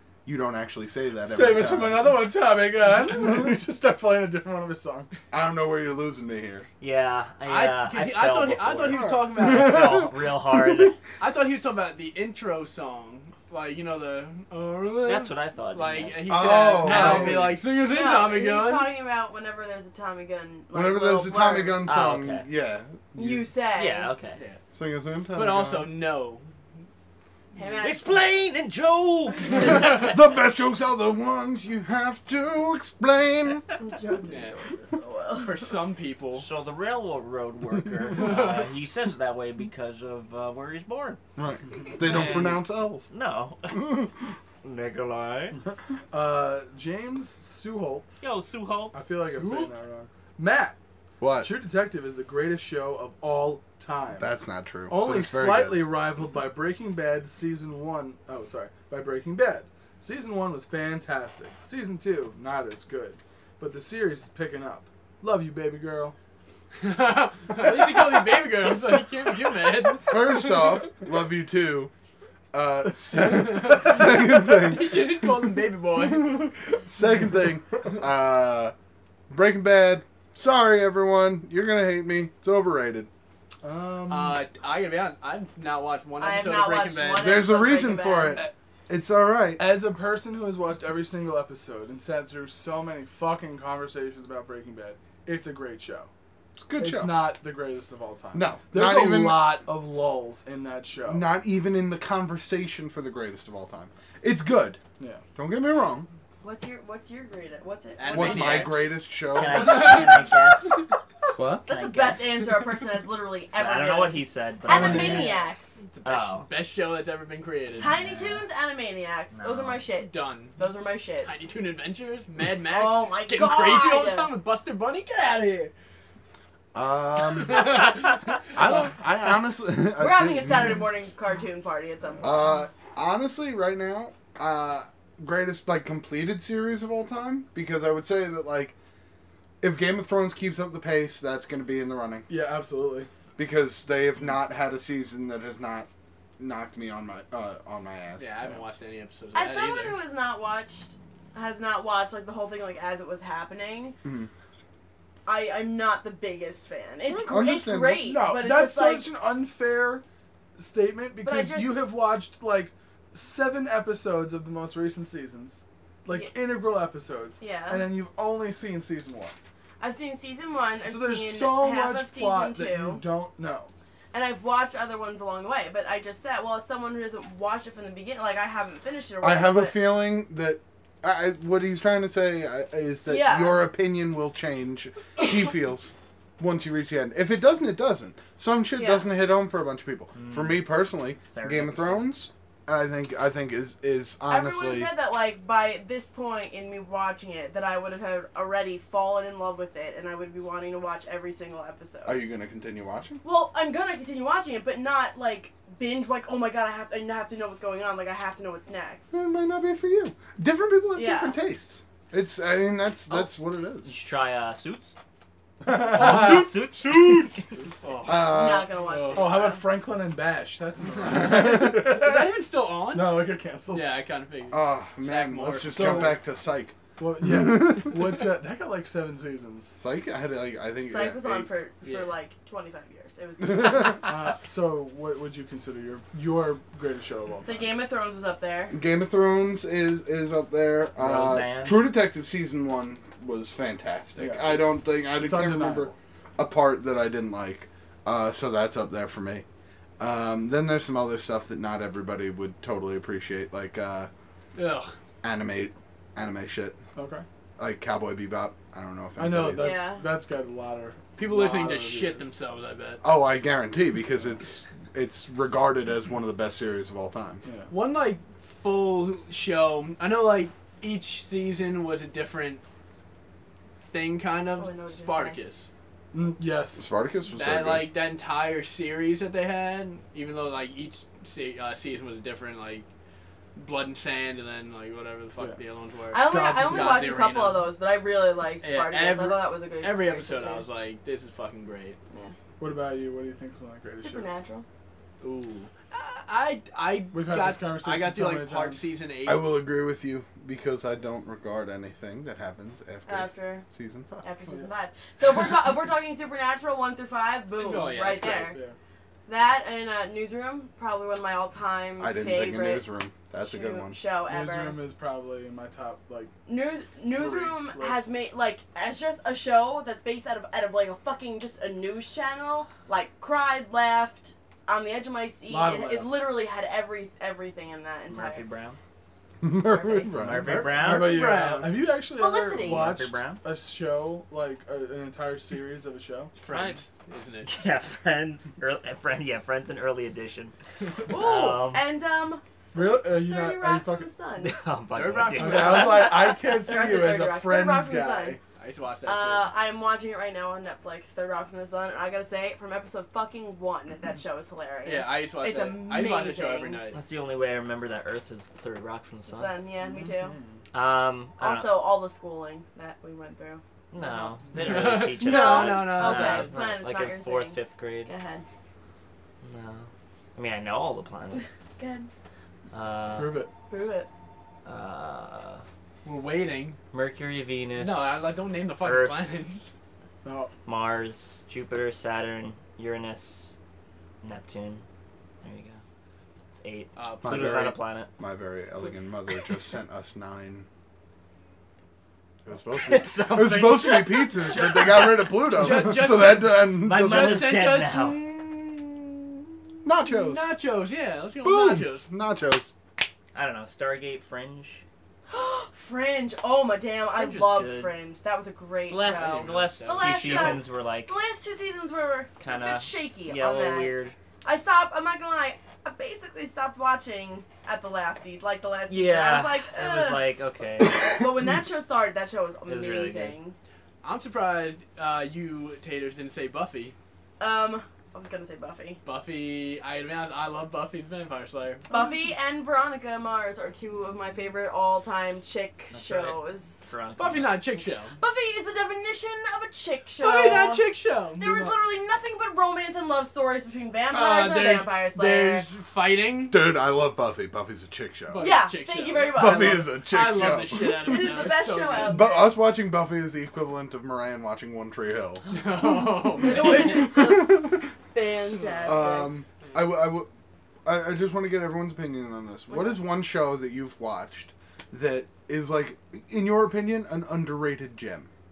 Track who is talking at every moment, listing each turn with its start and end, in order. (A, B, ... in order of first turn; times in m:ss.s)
0:00.2-0:02.2 A
0:01.3-0:05.2 B
0:05.3-0:06.7 A
0:06.8-0:11.0 C
0:07.4-0:10.1 D
0:08.9-0:09.3 B
0:11.2-0:18.9 D
0:15.0-0:17.5 C
0:16.3-0:17.6 A
0:17.8-0:21.8 E
0:20.7-0:23.5 A
0:21.8-0:22.5 C
0:23.1-0:24.1 E
0:23.7-0:24.4 C
0:24.7-0:25.9 A
0:25.3-0:26.5 D
0:27.6-0:28.0 E
0:27.8-0:30.1 C
0:29.5-0:33.7 A
0:33.8-0:35.7 E
0:34.3-0:34.6 D
0:35.4-0:36.5 D
0:36.4-0:41.2 C
0:38.1-0:38.7 D
0:41.4-0:43.1 A
0:42.0-0:44.1 C
0:43.7-0:44.1 A
0:44.6-0:45.6 C
0:46.1-0:48.2 B
0:48.2-0:49.7 C
0:48.9-0:50.8 B
0:51.2-0:51.5 A
0:51.4-0:54.3 B
0:54.2-0:55.9 A
0:54.9-1:06.2 B
1:06.8-1:10.6 D
1:10.1-1:11.9 A
1:12.5-1:15.0 A
1:13.2-1:16.6 D
1:16.8-1:18.7 A
1:19.3-1:23.1 A
1:23.6-1:24.4 B
1:24.1-1:27.4 D
1:26.2-1:28.4 E
1:27.2-1:29.8 A
1:29.6-1:36.1 B
1:36.6-1:37.3 A
1:36.8-1:41.3 B
1:38.3-1:39.6 A
1:41.1-1:44.8 A
1:45.4-1:46.1 A
1:46.4-1:48.8 E
1:48.0-1:50.7 D
1:48.1-1:50.0 A
1:49.3-1:50.8 C
1:51.3-1:51.6 A
1:51.6-1:52.4 C
1:51.7-1:55.8 E
1:53.5-1:55.4 C
1:54.7-1:55.4 B
1:55.8-1:58.0 D
1:56.0-1:56.5 C
1:57.8-1:58.4 C
1:57.8-2:01.5 E
1:59.3-1:59.8 C
2:00.0-2:00.5 D
2:01.2-2:05.7 D
2:02.7-2:04.3 E
2:06.7-2:10.8 A
2:07.4-2:08.8 D
2:10.0-2:12.4 E
2:12.2-2:18.7 A
2:19.6-2:22.3 A
2:22.3-2:23.1 B
2:23.4-2:28.3 A
2:28.2-2:30.0 D
2:29.3-2:34.0 E
2:34.0-2:34.3 A
2:35.2-2:39.1 E
2:37.1-2:38.0 A
2:38.0-2:40.0 B
2:40.6-2:49.3 B
2:41.2-2:41.8 E
2:47.4-2:47.9 E
2:49.8-2:53.0 E
2:50.8-2:53.7 B
2:54.1-2:59.8 E
2:59.2-3:14.9 A
3:03.0-3:03.6 E
3:08.8-3:09.1 E
3:10.1-3:12.1 C
3:14.3-3:22.2 E
3:22.0-3:23.2 A
3:23.2-3:29.1 E
3:29.1-3:34.0 A
3:31.0-3:31.4 E
3:33.8-3:35.0 C
3:35.6-3:36.7 B
3:35.7-3:37.5 C
3:37.4-3:37.8 B
3:37.8-3:39.4 D
3:38.0-3:38.7 A
3:38.1-3:39.7 E
3:39.1-3:43.9 B
3:40.9-3:46.2 D
3:44.5-3:48.3 A
3:45.7-3:46.2 B
3:47.0-3:49.8 B
3:49.8-3:51.5 A
3:50.8-3:54.1 E
3:51.8-3:52.1 D
3:53.4-3:53.9 A
3:54.0-3:57.7 B
3:57.4-3:58.8 E
3:58.7-4:09.4 A
4:01.0-4:01.8 C
4:04.2-4:05.9 B
4:10.0-4:14.1 A
4:14.5-4:14.9 D
4:15.2-4:16.8 A
4:16.9-4:17.2 B
4:17.6-4:19.8 A
4:19.2-4:22.3 B
4:19.6-4:20.0 E
4:21.2-4:23.0 D
4:23.0-4:27.4 A
4:27.4-4:27.7 B
4:27.7-4:32.6 D
4:33.9-4:35.7 D
4:34.6-4:35.4 E
4:36.1-4:36.9 B
4:36.8-4:37.9 A
4:37.3-4:42.9 D
4:43.5-4:47.7 D
4:46.1-4:50.6 E
4:46.2-4:47.1 B
4:48.6-4:52.0 D
4:52.6-4:54.4 B
4:54.0-4:54.6 E
4:55.2-4:59.6 D
4:57.1-4:58.9 B
4:59.2-5:04.2 A
5:03.1-5:03.6 E
5:04.2-5:08.6 E
5:07.6-5:08.5 D
5:08.5-5:08.8 B
5:09.3-5:12.8 E
5:12.0-5:14.0 A
5:13.4-5:14.8 E
5:14.2-5:16.3 B
5:16.4-5:28.4 E
5:17.1-5:18.2 B
5:25.5-5:26.3 B
5:28.1-5:28.8 C
5:29.4-5:30.7 A
5:29.6-5:30.1 E
5:30.1-5:31.5 C
5:30.4-5:31.9 D
5:30.6-5:36.3 B
5:32.1-5:33.0 E
5:32.6-5:33.4 C
5:36.4-5:37.6 D
5:36.5-5:36.8 C
5:37.4-5:41.8 C
5:41.1-5:44.6 E
5:42.7-5:44.1 B
5:44.4-5:46.1 C
5:44.9-5:46.1 D
5:45.3-5:48.4 B
5:45.8-5:48.4 E
5:48.6-5:49.5 D
5:49.0-5:56.8 E
5:54.8-5:57.0 D
5:56.9-5:59.5 C
5:59.3-6:00.4 E
5:59.8-6:00.6 B
6:00.7-6:01.8 C
6:01.4-6:08.4 E
6:03.9-6:08.1 C
6:04.5-6:06.6 D
6:09.4-6:11.6 C
6:11.8-6:12.1 E
6:12.7-6:13.4 C
6:13.1-6:13.5 B
6:13.7-6:14.1 E
6:14.6-6:15.6 C
6:16.0-6:16.8 D
6:16.9-6:18.3 C
6:17.8-6:19.7 D
6:18.8-6:19.2 C
6:20.2-6:20.5 B
6:20.6-6:23.5 C
6:24.2-6:24.8 C
6:25.4-6:25.8 C
6:26.5-6:28.1 C
6:27.0-6:27.7 D
6:27.2-6:30.7 A
6:32.4-6:37.6 A
6:32.7-6:35.0 C
6:34.5-6:39.2 D
6:36.7-6:38.3 C
6:39.8-6:40.5 A
6:40.0-6:42.1 D
6:41.4-6:42.7 A
6:43.3-6:44.8 C
6:45.3-7:00.3 E
6:47.1-6:47.9 C
6:48.9-6:51.2 C
6:49.0-6:50.6 D
6:52.4-6:54.1 C
6:58.9-7:01.1 C
7:01.0-7:03.5 E
7:02.7-7:03.4 C
7:04.0-7:07.0 D
7:07.4-7:09.0 E
7:09.0-7:11.9 D
7:11.9-7:16.8 E
7:15.9-7:17.6 C
7:17.2-7:18.2 D
7:18.2-7:25.7 E
7:20.2-7:21.7 D
7:24.1-7:26.6 D
7:26.5-7:28.5 A
7:28.3-7:32.3 D
7:28.4-7:29.8 E
7:29.3-7:31.4 A
7:31.0-7:32.5 E
7:32.0-7:35.4 A
7:35.5-7:37.0 D
7:36.4-7:39.3 E
7:36.8-7:37.8 A
7:38.5-7:39.1 D
7:38.8-7:40.3 A
7:40.8-7:48.3 A
7:42.7-7:43.0 E